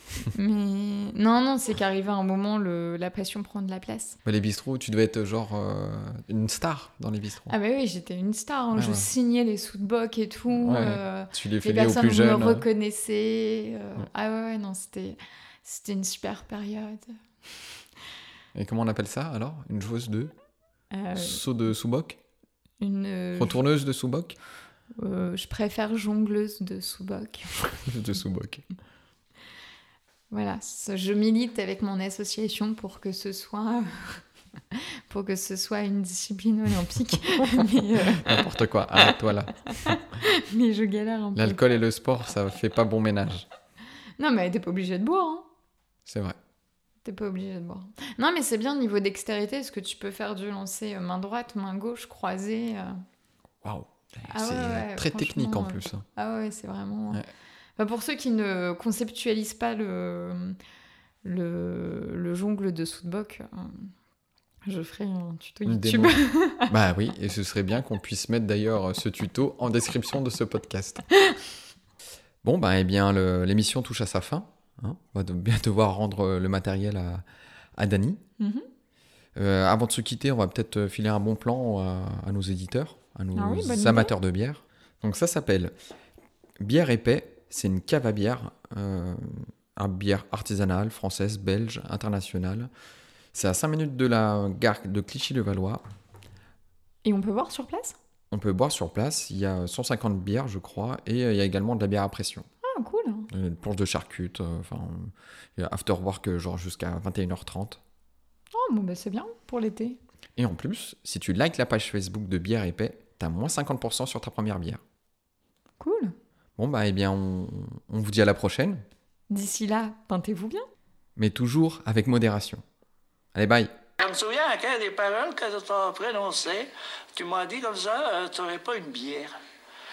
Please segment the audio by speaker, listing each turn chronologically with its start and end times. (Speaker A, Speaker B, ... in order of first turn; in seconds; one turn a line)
Speaker A: 0.3-4.2
Speaker B: 4.2-7.5
Speaker A: 7.5-17.1
Speaker B: 8.7-9.1
Speaker B: 10.5-12.7
Speaker B: 18.5-20.3
Speaker A: 20.9-21.5
Speaker B: 21.1-22.2
Speaker A: 22.8-23.6
Speaker B: 23.4-24.4
Speaker A: 25.0-27.6
Speaker B: 27.7-28.6
Speaker A: 30.3-34.2
Speaker A: 35.1-41.6
Speaker B: 38.0-39.5
Speaker B: 41.3-43.5
Speaker A: 44.2-45.4
Speaker B: 46.0-46.4
Speaker A: 47.0-52.9
Speaker B: 53.6-56.0
Speaker A: 54.3-57.2
Speaker A: 57.8-60.6
Speaker A: 61.2-63.9
Speaker A: 64.7-66.7
Speaker B: 65.7-71.0
Speaker B: 72.4-77.2
Speaker B: 77.8-78.2
Speaker A: 78.4-78.7
Speaker B: 79.3-85.7
Speaker A: 83.3-84.1
Speaker B: 86.6-92.7
Speaker B: 93.3-95.8
Speaker A: 97.0-98.0
Speaker B: 98.3-102.5
Speaker A: 102.6-103.3
Speaker B: 103.3-107.8
Speaker A: 108.5-110.0
Speaker B: 110.4-114.8
Speaker A: 115.8-116.1
Speaker B: 116.6-118.8
Speaker A: 119.3-120.6
Speaker B: 121.2-122.6
Speaker B: 123.3-123.7
Speaker C: 124.0-129.3